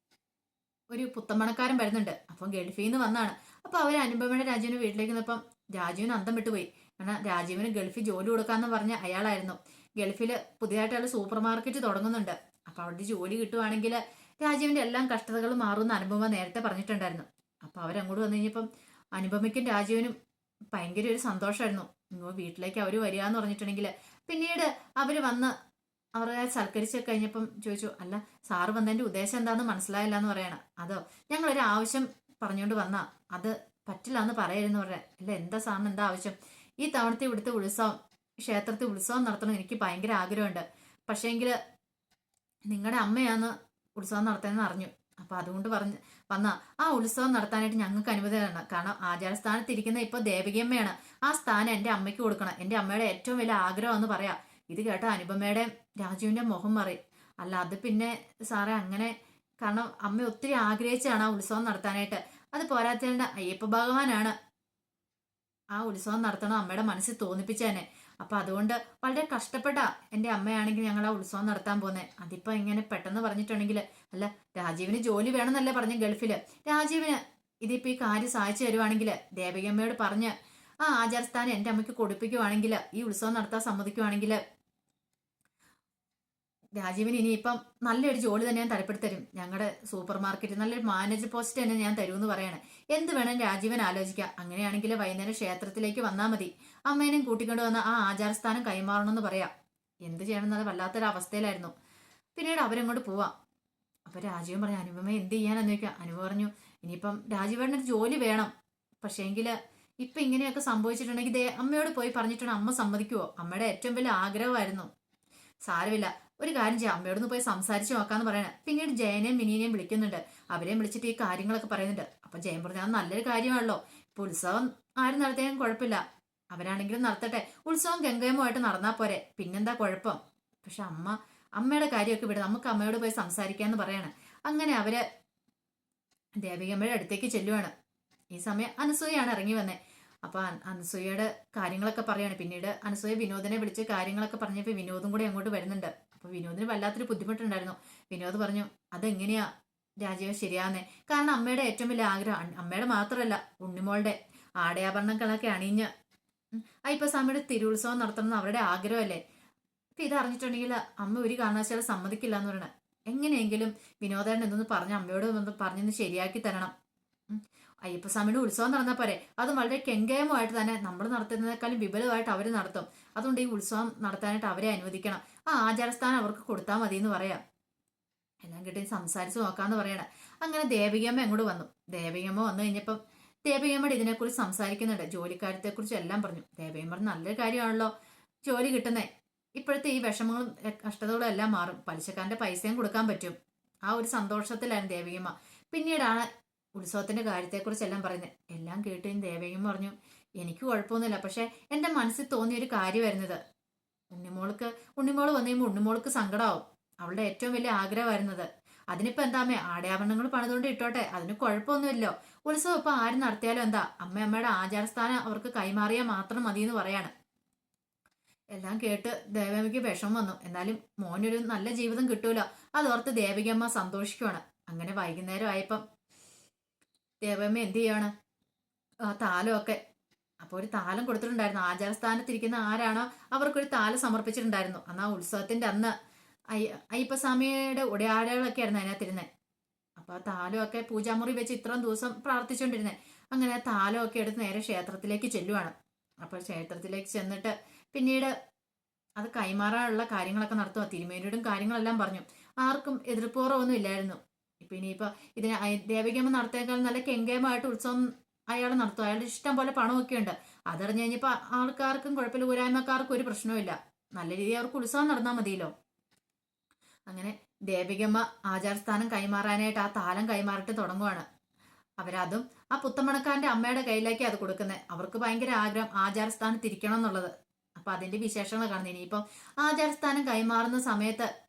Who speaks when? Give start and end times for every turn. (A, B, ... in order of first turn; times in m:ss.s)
0:00.9-0:20.2 A
0:20.7-0:25.5 A
0:26.1-0:41.6 A
0:42.7-1:04.3 A
1:05.7-1:24.4 A
1:26.8-1:39.5 A
1:40.0-1:41.7 A
1:42.4-1:43.3 A
1:44.1-1:48.5 A
1:49.0-1:54.9 A
1:55.6-2:15.0 A
2:16.4-2:17.7 A
2:18.3-2:29.5 A
2:30.0-2:35.9 A
2:36.5-2:39.2 A
2:40.0-2:46.7 A
2:47.3-2:57.4 A
2:58.4-3:07.9 A
3:08.4-3:23.4 A
3:24.1-3:37.1 A
3:38.5-3:45.8 A
3:47.2-3:48.1 A
3:49.0-3:49.8 A
3:50.4-3:55.9 A
3:56.5-3:59.3 A
4:00.0-4:08.3 A
4:09.2-4:25.7 A
4:27.1-4:31.2 A
4:32.0-4:41.3 A